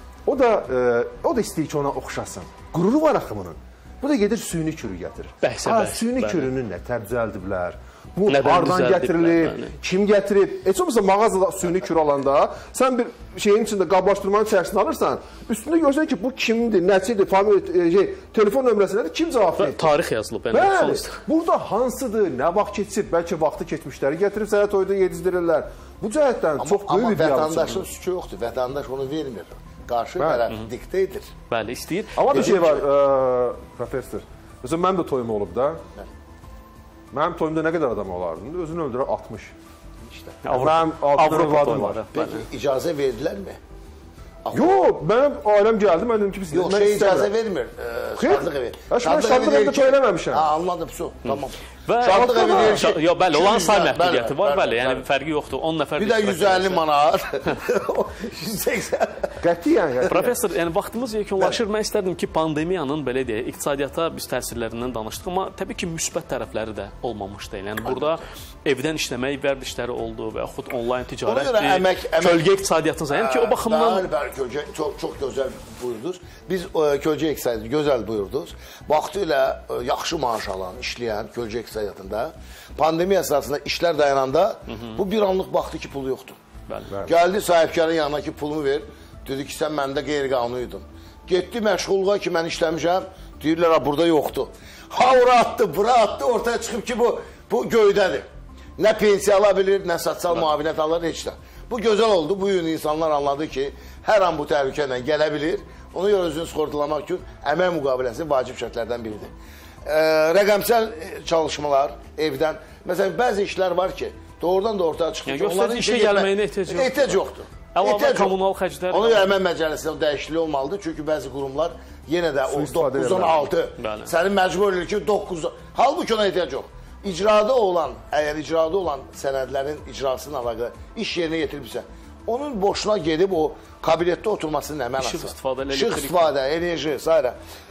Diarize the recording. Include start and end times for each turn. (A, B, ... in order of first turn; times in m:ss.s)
0:00.2-0:19.9 A
0:05.4-0:06.5 B
0:08.3-0:09.8 B
0:19.6-0:21.2 B
0:20.5-0:27.8 A
0:26.6-0:31.3 C
0:30.2-0:30.5 A
0:31.5-0:32.6 B
0:32.2-0:35.8 A
0:32.3-0:32.7 C
0:37.1-0:39.5 A
0:40.4-0:42.4 B
0:40.5-0:42.0 A
0:42.1-0:43.6 C
0:44.4-0:44.9 C
0:44.5-0:47.3 A
0:46.5-0:55.0 C
0:48.2-0:50.5 A
0:51.2-0:56.8 B
0:52.0-0:52.9 A
0:56.0-0:59.3 C
0:59.4-1:00.3 A
1:00.1-1:14.1 B
1:11.2-1:12.5 C
1:13.1-1:26.4 C
1:24.7-1:25.0 B
1:26.7-1:26.9 B
1:27.0-1:38.2 C
1:38.8-1:49.3 C
1:49.8-2:17.4 C
1:55.3-1:57.2 B
1:57.7-1:59.3 B
2:02.5-2:03.5 A
2:03.8-2:04.1 B
2:15.0-2:16.3 B